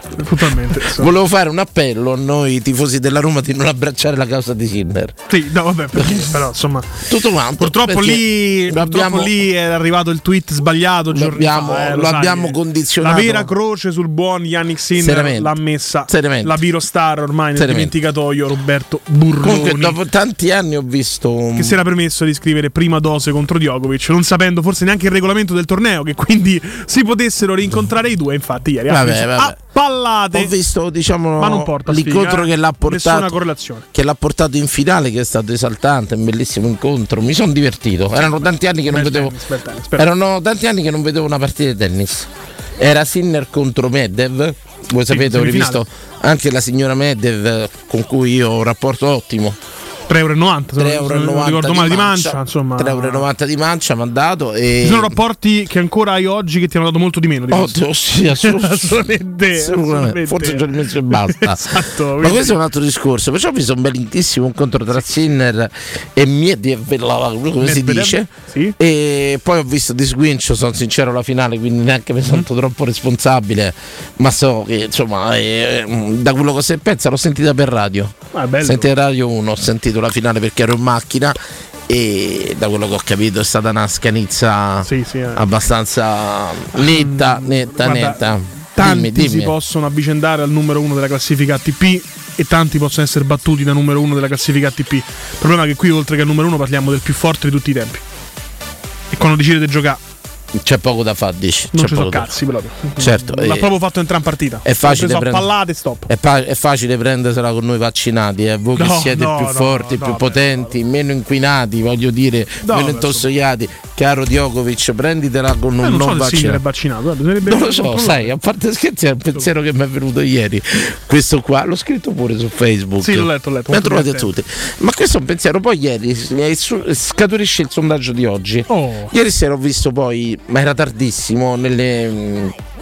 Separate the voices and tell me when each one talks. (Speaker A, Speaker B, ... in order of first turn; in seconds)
Speaker A: 0.2-1.1, 5.3-7.0, 7.6-19.9, 21.6-30.5, 31.4-33.8, 38.9-40.1, 45.1-45.8, 50.1-53.2, 54.8-57.8, 58.3-60.6, 61.2-62.6, 67.6-68.7, 78.3-78.9, 84.9-85.4, 86.8-98.0, 99.1-100.0, 101.7-106.1, 108.8-110.7, 112.6-113.2, 115.8-118.3, 123.0-124.3, 128.7-129.1
Speaker B: 0.8-5.2, 5.9-6.3, 7.0-9.3, 11.1-13.5, 14.9-15.5, 16.1-16.6, 17.6-17.9, 19.4-21.8, 28.9-29.6, 30.3-33.3, 33.9-39.3, 40.0-49.6, 50.8-55.1, 57.5-89.5, 100.6-102.3, 103.0-103.7, 104.6-105.5, 106.1-116.6, 117.4-132.6